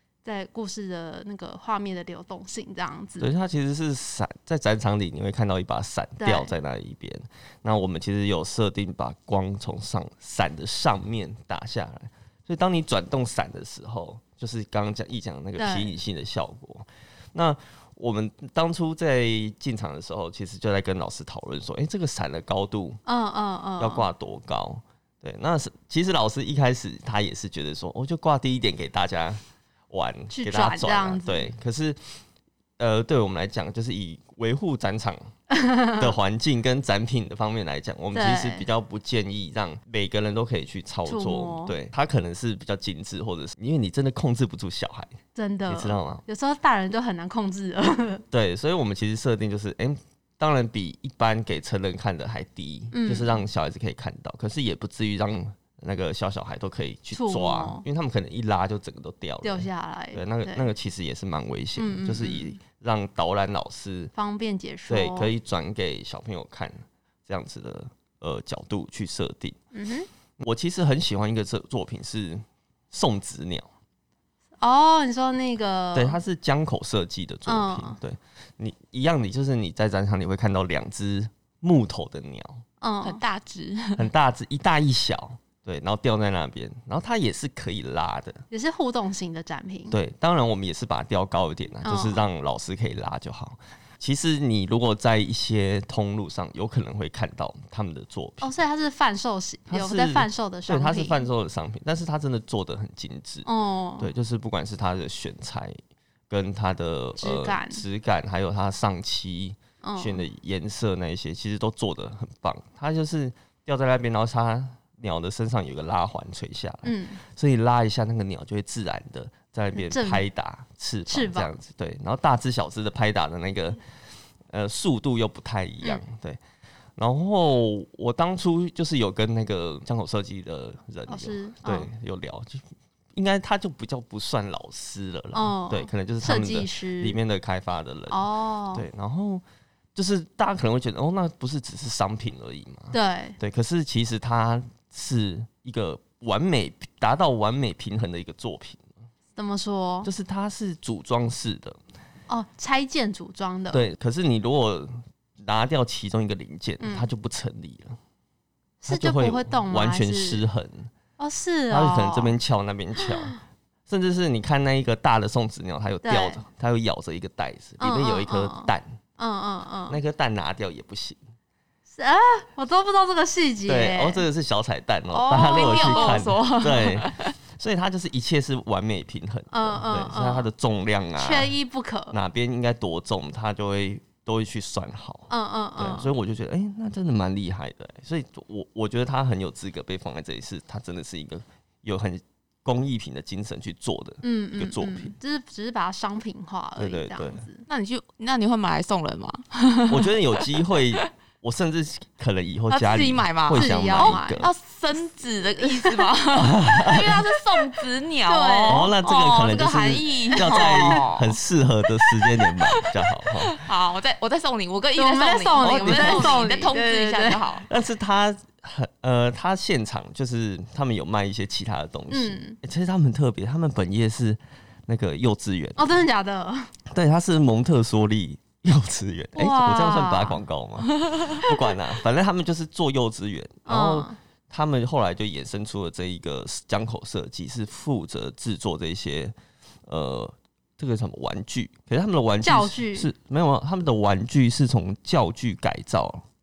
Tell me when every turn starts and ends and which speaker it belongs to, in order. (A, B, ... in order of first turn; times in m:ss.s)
0:00.2-0:03.3 A
0:03.2-0:23.0 B
0:06.2-0:06.5 A
0:15.6-0:15.9 A
0:23.0-0:24.1 A
0:23.8-0:32.2 B
0:30.3-0:31.5 A
0:32.8-0:35.3 B
0:35.5-0:36.1 A
0:36.0-0:45.2 B
0:38.1-0:38.6 A
0:41.1-0:41.7 A
0:45.3-0:48.2 A
0:45.7-0:46.2 B
0:48.3-1:04.1 B
0:52.9-0:53.4 A
0:57.1-0:57.8 A
0:59.4-1:00.7 A
1:01.8-1:02.6 A
1:04.1-1:05.3 A
1:04.9-1:09.6 B
1:09.7-1:10.1 A
1:10.4-1:13.7 B
1:14.6-1:16.2 A
1:15.9-1:22.6 B
1:17.4-1:18.0 A
1:22.8-1:23.2 A
1:23.0-1:24.1 C
1:24.0-1:28.4 B
1:28.5-1:30.0 A
1:29.9-1:38.5 B
1:31.8-1:32.2 A
1:38.4-1:41.3 A
1:39.7-1:43.5 B
1:43.4-1:44.1 A
1:44.0-1:45.8 B
1:46.3-2:03.8 B
1:47.2-1:47.8 A
1:49.8-1:50.2 A
1:56.8-1:57.2 A
1:59.7-2:00.2 A
2:01.1-2:01.5 A
2:04.5-2:06.4 B
2:07.0-2:19.4 B
2:11.1-2:11.9 A
2:15.3-2:17.2 A
2:18.1-2:18.8 A
2:19.9-2:28.9 B
2:22.9-2:23.4 A
2:29.4-2:30.1 A
2:30.0-2:31.8 B
2:32.3-2:33.8 A
2:33.7-2:38.0 B
2:36.8-2:37.1 A
2:38.8-2:40.4 A
2:38.8-2:40.9 B
2:41.2-2:42.3 A
2:41.7-2:43.3 B
2:43.0-2:43.4 A
2:43.9-2:48.9 B
2:46.0-2:46.4 A
2:47.8-2:50.0 A
2:49.9-2:51.2 B
2:51.9-2:54.2 A
2:53.6-3:01.5 B
2:55.1-2:56.2 A
2:55.3-2:57.3 C
2:59.5-3:00.5 A
3:01.2-3:02.2 A
3:02.1-3:15.2 B
3:05.3-3:06.1 A
3:14.2-3:17.6 A
3:16.8-3:17.4 B
3:17.7-3:21.0 C
3:19.9-3:24.5 B
3:22.7-3:31.4 C
3:23.5-3:24.4 A
3:25.6-3:26.1 A
3:26.3-3:27.2 B
3:28.2-3:28.9 A
3:28.7-3:33.6 B
3:30.3-3:31.0 A
3:33.5-3:37.7 C
3:35.0-3:37.5 A
3:35.6-3:36.6 B
3:37.7-3:45.9 B
3:42.1-3:42.6 A
3:45.8-3:46.7 A
3:46.9-3:59.3 B
3:49.3-3:50.4 A
3:53.6-3:54.2 A
3:59.8-4:06.2 B
4:02.4-4:03.1 A